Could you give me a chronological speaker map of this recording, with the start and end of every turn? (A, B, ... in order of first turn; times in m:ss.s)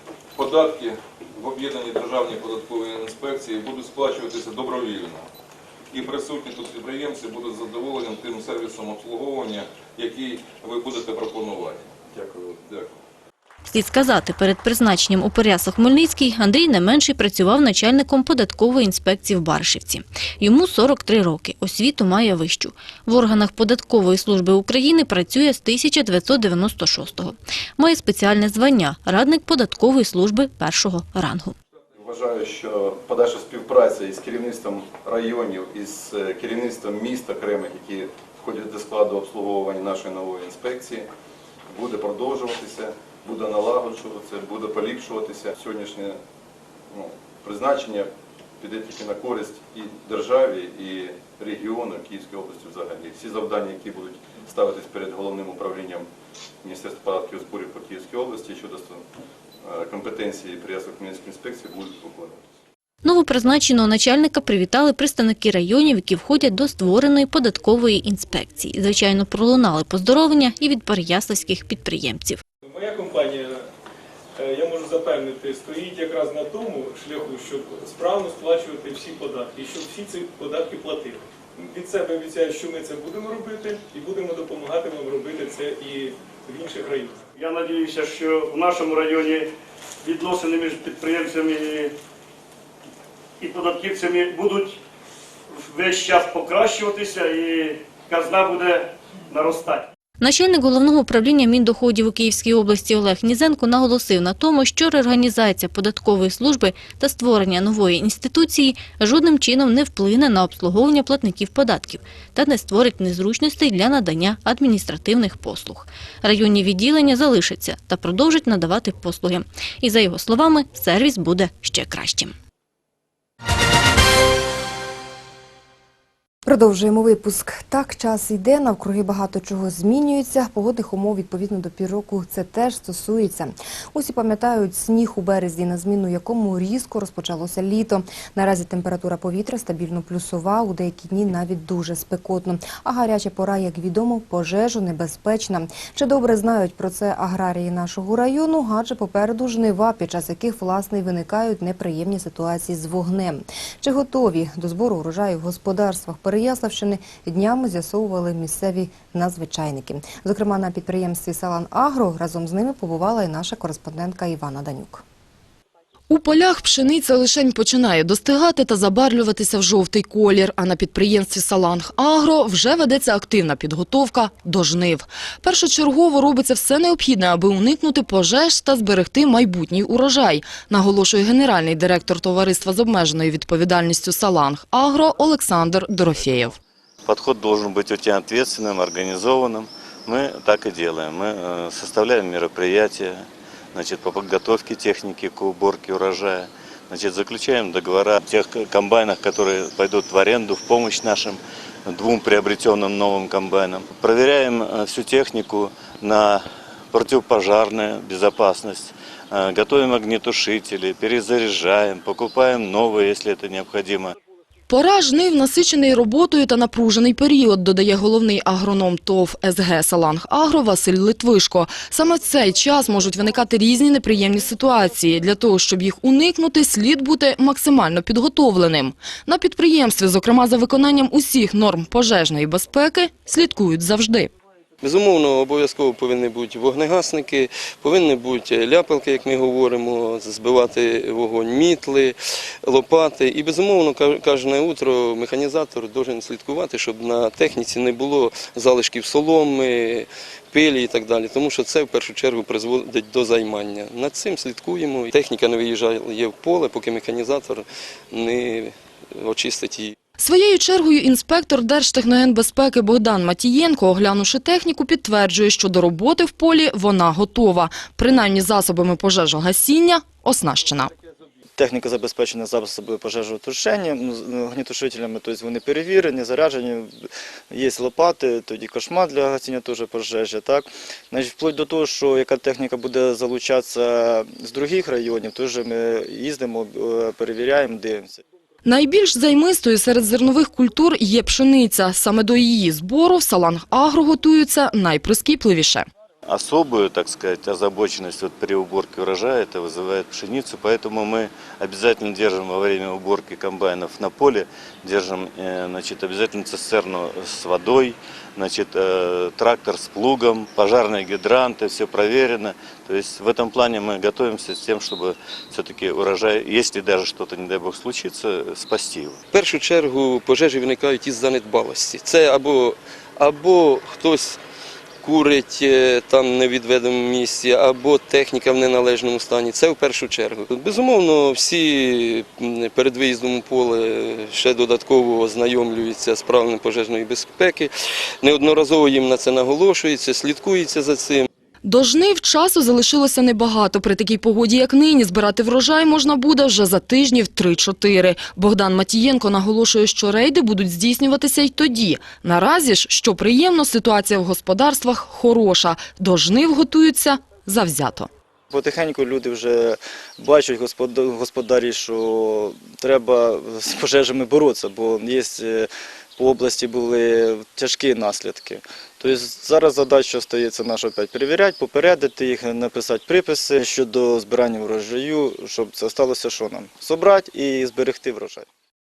0:00.4-0:05.2 A
0:05.9-0:11.8 A
0:12.1-0:12.9 B
0:13.6-0:31.6 C
0:32.0-0:41.1 B
0:41.7-0:46.2 B
0:46.9-0:56.1 B
0:56.6-0:59.0 B
0:59.6-1:02.4 B
1:03.0-1:12.4 C
1:12.6-1:13.6 D
1:14.4-1:27.2 D
1:27.4-1:29.5 E
1:30.0-1:31.9 E
1:33.4-1:34.8 E
1:35.6-1:39.9 E
1:40.2-2:02.3 C
2:06.4-2:45.0 F
2:46.1-3:06.6 G
3:07.0-3:34.1 H
3:34.7-3:54.3 G
3:54.8-4:20.0 I
4:20.2-4:30.9 G
4:31.6-4:48.2 J
4:48.6-4:55.9 G
4:56.3-5:19.2 H
5:19.3-5:24.4 I
5:25.0-5:37.7 I
5:38.2-5:41.3 I
5:41.6-5:58.1 G
5:58.5-6:18.4 J